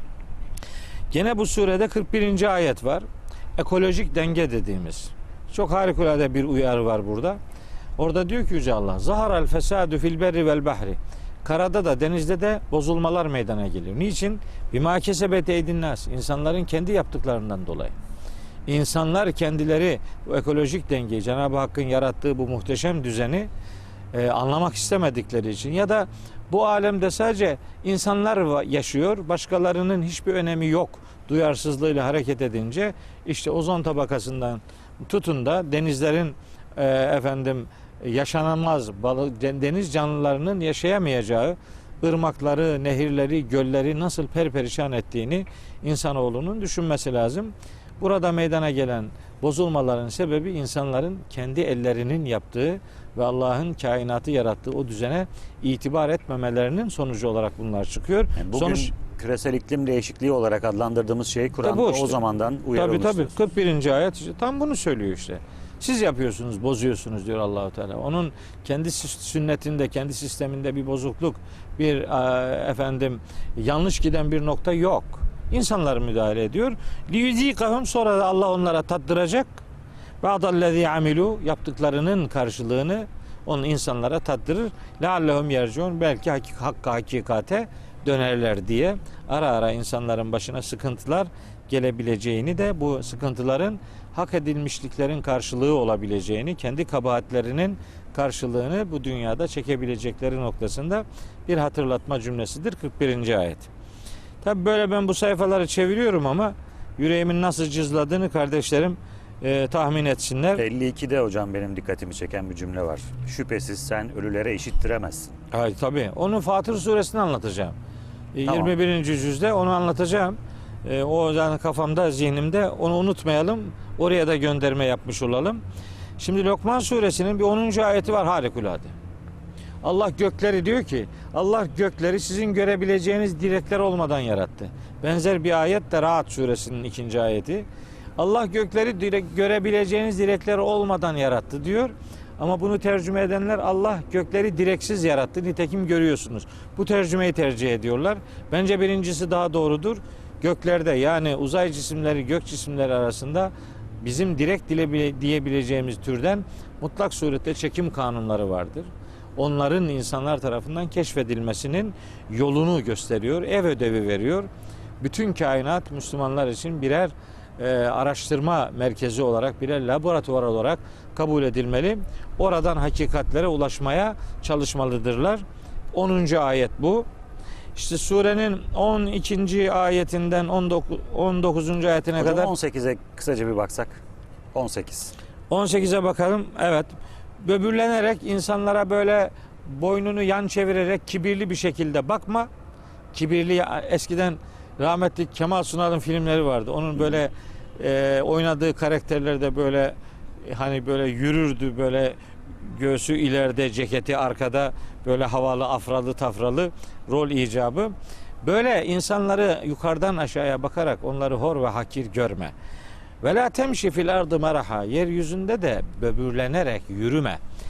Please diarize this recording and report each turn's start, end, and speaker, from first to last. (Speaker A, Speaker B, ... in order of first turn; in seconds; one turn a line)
Speaker A: 1.1-7.4
Speaker A: 8.0-17.9
Speaker A: 18.7-23.5
Speaker A: 24.1-58.9
Speaker B: 58.4-63.3
Speaker A: 61.6-62.2
Speaker A: 62.7-79.6
Speaker A: 80.2-103.7
Speaker A: 104.4-110.6
Speaker B: 110.6-115.3
Speaker A: 115.5-117.8
Speaker A: 118.3-125.6
Speaker B: 118.5-118.7
Speaker A: 126.2-128.9
Speaker A: 129.8-137.7
Speaker A: 138.2-164.5
Speaker A: 165.0-177.1
Speaker A: 177.8-182.5
Speaker B: 182.2-184.0
Speaker B: 184.5-185.1
Speaker A: 185.5-192.5
Speaker A: 193.1-212.5
Speaker A: 213.2-217.4